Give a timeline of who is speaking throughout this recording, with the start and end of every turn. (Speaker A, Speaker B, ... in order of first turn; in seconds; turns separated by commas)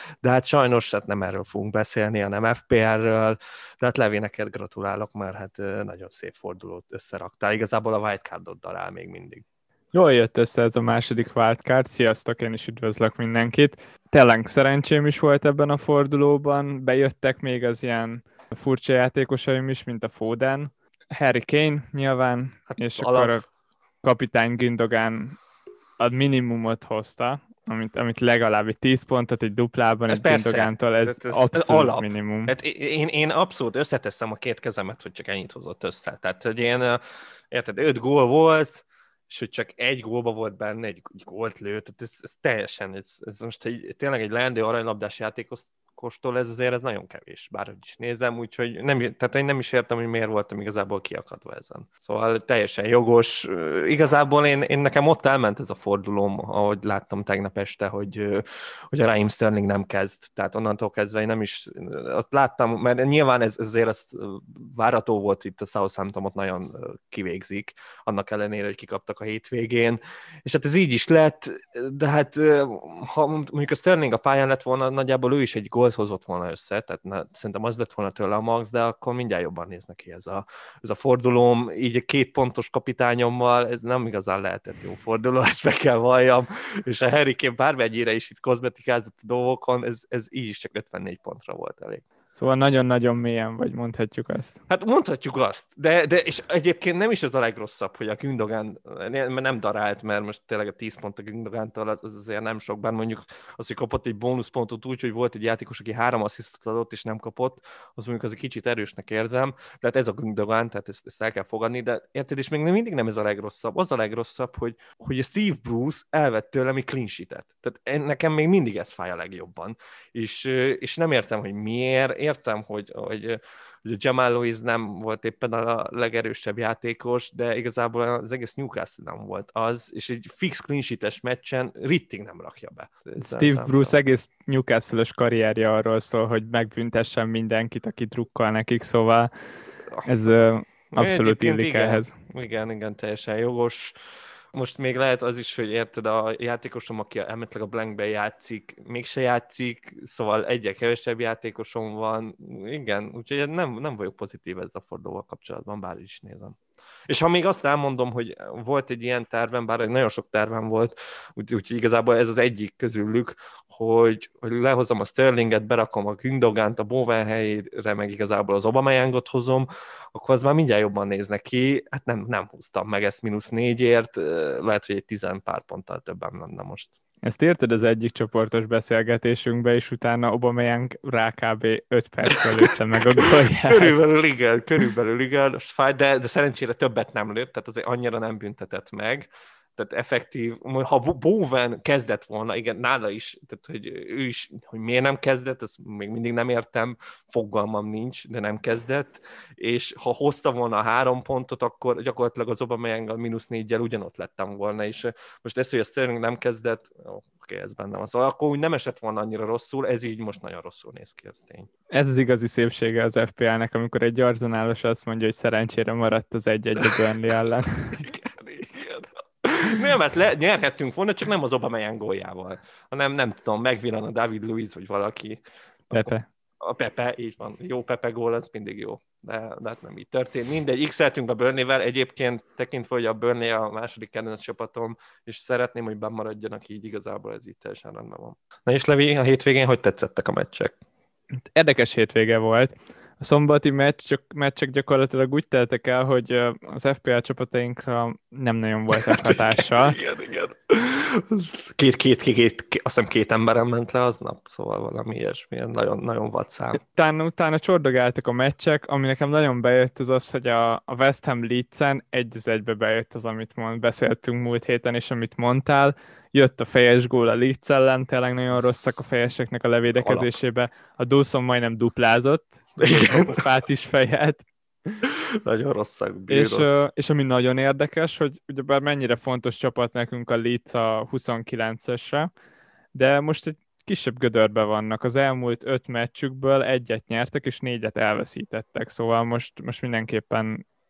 Speaker A: 0.2-9.4, Speaker B: 9.9-23.4, Speaker A: 22.7-23.4, Speaker B: 24.0-25.4, Speaker B: 26.0-32.5, Speaker A: 30.1-92.0, Speaker B: 92.3-94.6, Speaker A: 94.7-133.9, Speaker B: 133.2-139.3, Speaker B: 140.1-142.1, Speaker A: 140.9-144.0, Speaker A: 144.5-176.9, Speaker B: 177.2-184.0, Speaker A: 182.4-211.7, Speaker B: 211.9-218.0, Speaker A: 217.9-240.8, Speaker B: 225.9-226.3, Speaker B: 241.5-250.0, Speaker A: 249.1-256.8, Speaker B: 256.8-274.4, Speaker A: 270.0-270.3, Speaker A: 272.8-273.4, Speaker A: 275.0-276.8, Speaker B: 276.3-282.3, Speaker B: 282.9-290.6